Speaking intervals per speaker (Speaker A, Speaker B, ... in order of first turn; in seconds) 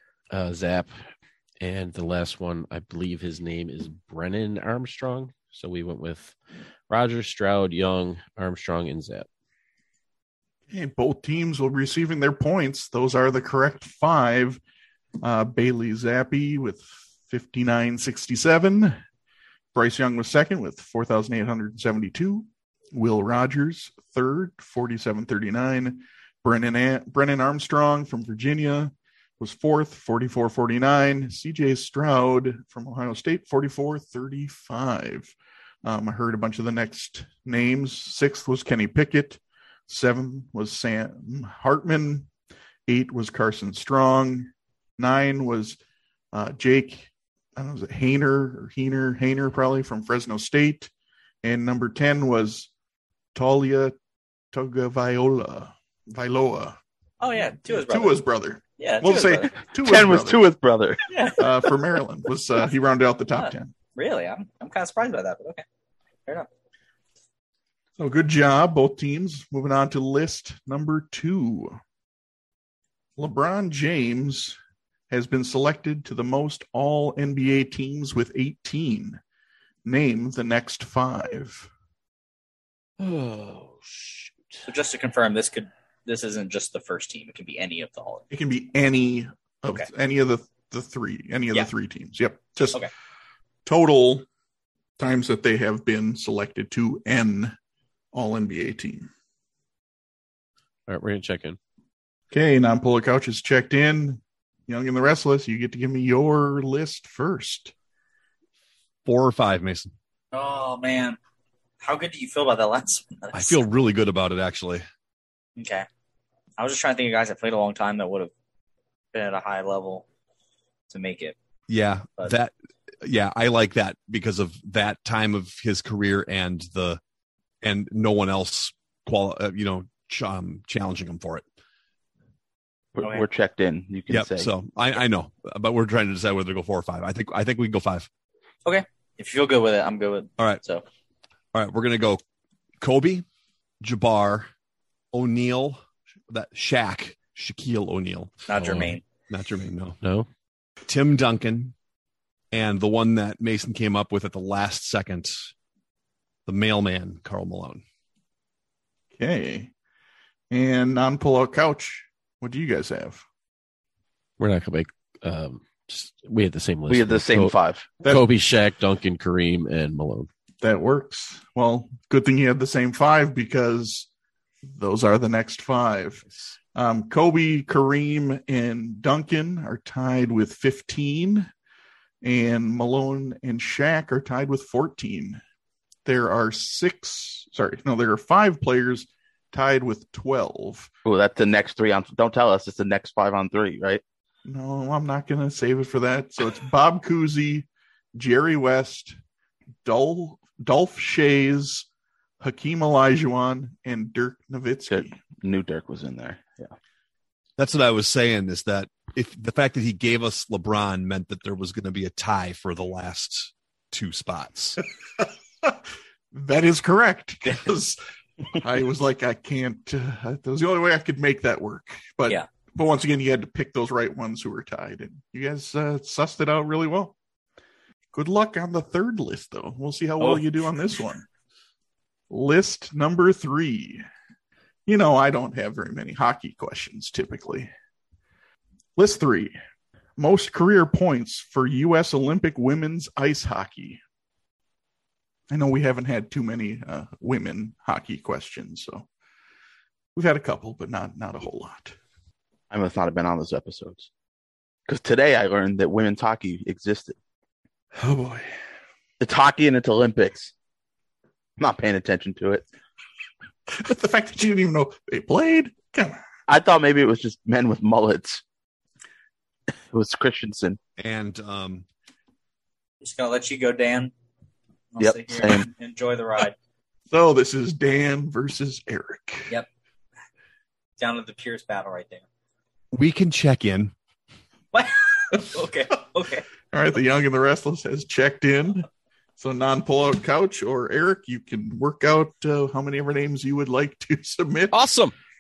Speaker A: 0.3-0.9, 1.6-6.4, 6.9-9.3, 83.0-84.6, 100.9-101.6, 148.6-148.9, 150.0-150.3, 164.4-170.3, 294.7-295.1
Speaker B: 10.7-14.6, 15.2-19.0, 19.7-35.3, 35.9-42.3, 42.9-45.8, 46.3-50.9, 51.4-52.7, 53.4-54.0, 54.5-56.8, 57.7-60.5, 61.4-63.7, 68.0-71.8, 73.2-74.6, 75.1-79.2, 79.8-81.7, 88.3-92.8, 93.7-94.3, 95.0-97.5, 98.1-99.1, 102.3-107.7, 159.2-159.7, 160.5-163.2, 170.6-174.1, 174.7-181.5, 182.2-185.4, 186.1-190.9, 194.4-199.2, 199.8-201.9, 202.4-205.2, 215.2-215.8, 216.3-218.0, 218.5-227.1, 228.1-231.3, 232.3-234.0, 234.9-237.7, 239.0-239.6, 240.2-244.0, 245.5-249.1, 250.2-252.0, 258.0-258.5, 263.7-266.2, 277.1-279.5, 286.7-288.9, 289.4-294.8
Speaker C: 57.2-58.2, 58.8-59.5, 61.1-61.4, 63.4-65.6, 84.7-88.2, 110.3-111.2, 111.8-113.6, 115.6-115.9, 116.6-118.3, 119.1-120.0, 120.9-121.4, 138.7-140.8, 148.5-149.0, 273.0-274.1, 274.9-276.6, 281.0-282.2, 284.7-286.5
Speaker D: 59.8-61.0, 132.9-134.5, 166.9-167.9, 191.1-194.0, 204.9-206.7, 252.7-254.1, 254.9-257.2, 259.2-260.5, 261.6-262.6, 266.5-268.4, 269.9-270.8, 275.0-275.7
Speaker E: 109.1-109.9, 113.3-114.8, 121.7-127.0, 127.6-131.4, 134.1-138.1, 141.5-142.2, 142.8-143.2, 143.8-144.5, 145.1-148.4, 149.3-150.0, 150.9-151.7, 152.5-155.5, 156.5-157.8, 207.6-214.8, 271.0-271.9, 282.9-283.9